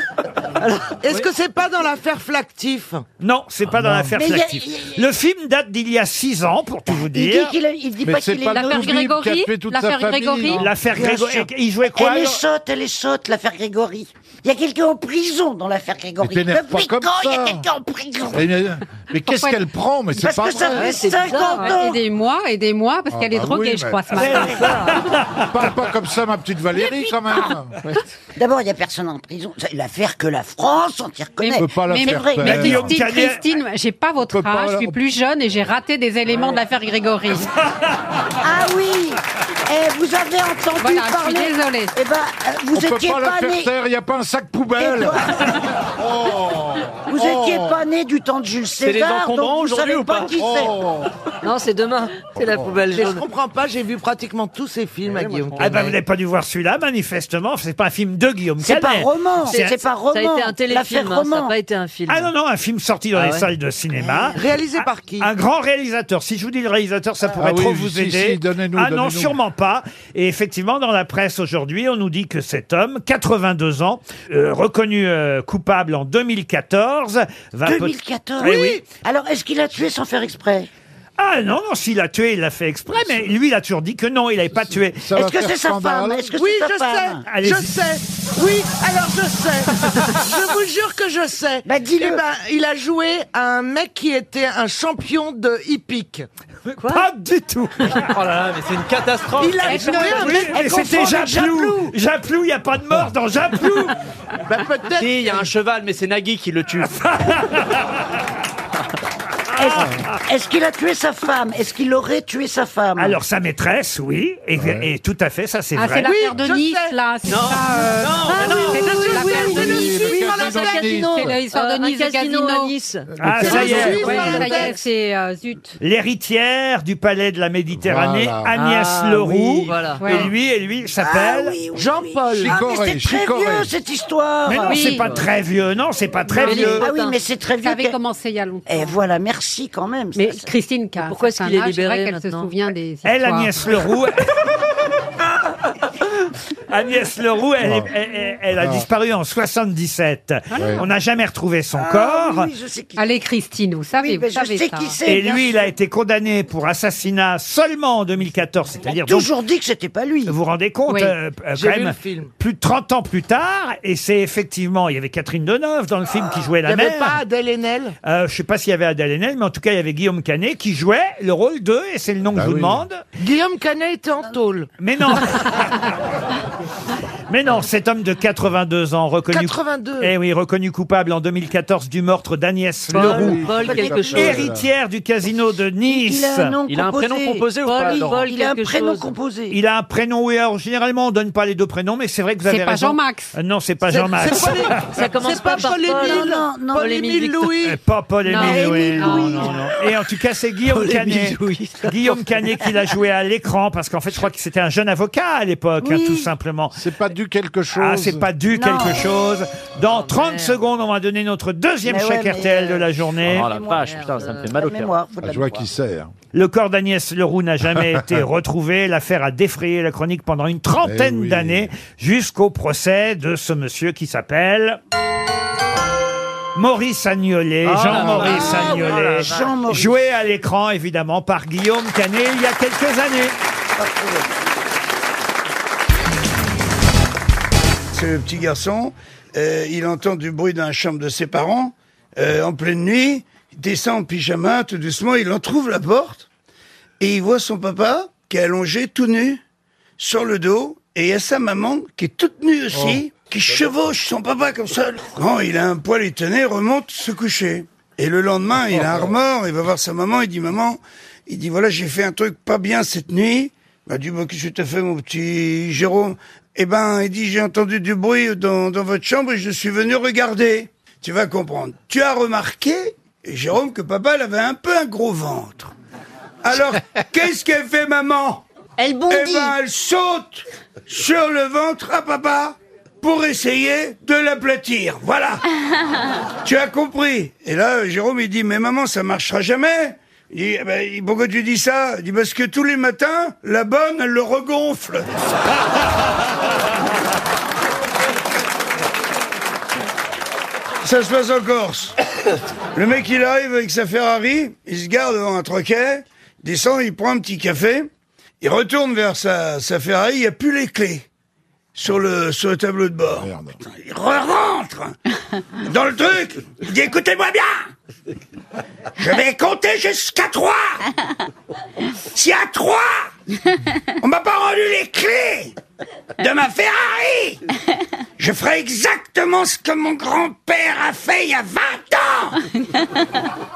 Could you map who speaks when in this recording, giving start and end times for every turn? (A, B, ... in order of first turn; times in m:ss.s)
0:00.6-0:00.9 A
0:01.0-0:03.0 B
0:03.2-0:07.6 C
0:03.7-0:04.2 D
0:04.2-0:05.0 E
0:06.9-0:08.8 E
0:08.0-0:10.7 D
0:08.4-0:10.7 F
0:10.5-0:12.4 C
0:10.9-0:18.4 E
0:16.2-0:17.6 D
0:18.3-0:20.9 D
0:19.2-0:19.6 F
0:20.2-0:22.0 E
0:20.7-0:21.8 A
0:20.8-0:24.7 F
0:23.1-0:24.2 D
0:24.2-0:25.2 C
0:24.3-0:24.8 E
0:25.5-0:27.7 D
0:26.8-0:27.5 E
0:28.4-0:32.9 E
0:31.4-0:37.5 F
0:31.6-0:33.0 D
0:32.5-0:33.4 C
0:34.3-0:35.0 D
0:38.4-0:43.7 E
0:40.8-0:41.9 F
0:42.7-0:45.2 D
0:44.8-0:45.6 E
0:46.0-0:47.8 D
0:47.1-0:50.8 E
0:48.8-0:50.4 G
0:50.4-0:51.0 D
0:51.4-0:53.2 A
0:52.9-0:55.9 B
0:55.6-0:59.7 C
0:58.6-1:01.6 E
0:59.4-1:02.3 A
1:02.1-1:04.4 C
1:03.2-1:03.4 A
1:04.3-1:05.3 B
1:05.2-1:18.8 C
1:07.4-1:09.4 D
1:17.6-1:20.7 E
1:21.2-1:25.1 C
1:25.0-1:26.3 D
1:25.2-1:27.3 E
1:26.3-1:36.3 B
1:27.2-1:27.7 C
1:31.6-1:32.2 E
1:36.8-1:38.1 C
1:38.2-1:39.5 G
1:39.4-1:41.8 B
1:39.7-1:40.3 F
1:39.7-1:44.0 C
1:40.5-1:41.4 E
1:44.5-1:45.1 B
1:45.0-1:46.8 G
1:47.1-1:47.6 C
1:49.6-1:53.2 E
1:53.0-1:56.1 C
1:54.6-1:54.9 D
1:55.8-2:00.0 F
1:56.0-1:57.0 B
1:58.3-2:01.0 B
1:59.5-2:01.4 D
2:00.5-2:04.7 A
2:01.1-2:02.7 F
2:03.2-2:03.8 D
2:03.2-2:04.0 C
2:03.4-2:04.8 B
2:03.5-2:05.8 F
2:05.8-2:11.6 C
2:07.8-2:08.6 D
2:08.6-2:10.2 A
2:10.0-2:10.3 F
2:11.0-2:15.0 E
2:12.3-2:13.7 D
2:14.5-2:16.9 C
2:14.7-2:15.2 A
2:16.3-2:16.8 F
2:16.4-2:17.2 A
2:16.5-2:18.0 E
2:17.6-2:19.0 F
2:18.7-2:20.5 E
2:20.2-2:23.7 F
2:21.0-2:22.5 A
2:23.0-2:24.1 C
2:26.7-2:32.5 C
2:28.6-2:28.8 D
2:30.5-2:30.8 F
2:31.7-2:33.0 E
2:33.0-2:35.0 F
2:34.0-2:35.7 E
2:35.1-2:39.3 C
2:38.8-2:40.4 E
2:40.3-2:47.2 C
2:40.9-2:41.1 F
2:41.5-2:42.3 B
2:46.6-2:48.0 B
2:48.0-2:53.0 C
2:52.4-2:52.8 D
2:53.2-2:54.7 B
2:54.8-2:55.8 C
2:57.3-3:03.4 C
2:59.3-3:00.1 B
3:02.9-3:04.7 D
3:03.0-3:04.3 A
3:03.6-3:04.1 E
3:04.1-3:06.5 C
3:05.9-3:09.6 E
3:06.7-3:08.2 G
3:07.6-3:09.1 A
3:09.5-3:14.8 C
3:12.5-3:13.3 F
3:13.9-3:17.8 B
3:14.9-3:17.5 A
3:16.0-3:17.0 E
3:17.6-3:26.8 C
3:18.3-3:19.5 F
3:18.4-3:19.5 E
3:25.8-3:26.3 E
3:26.7-3:28.3 D
3:27.7-3:33.5 C
3:28.5-3:29.0 E
3:29.9-3:30.6 A
3:31.8-3:35.6 E
3:33.7-3:34.6 A
3:33.7-3:34.9 G
3:35.2-3:36.1 D
3:36.3-3:44.8 C
3:40.8-3:41.7 D
3:46.6-3:53.4 C
3:47.9-3:48.3 D
3:47.9-3:50.0 E
3:53.8-3:54.2 E
3:57.9-4:06.3 H
4:07.0-4:09.4 H
4:10.0-4:35.7 H
4:36.4-4:38.4 H
4:39.0-4:45.4 H
4:46.4-4:55.1 H
5:00.8-5:01.9 H
5:02.7-5:07.9 H
5:08.4-5:11.0 H
5:11.8-5:15.0 H
5:13.2-5:13.5 D
5:15.6-5:17.7 H
5:19.0-5:20.8 H
5:22.1-5:23.1 H
5:24.0-5:25.5 H
5:26.2-5:27.4 H
5:28.2-5:32.4 H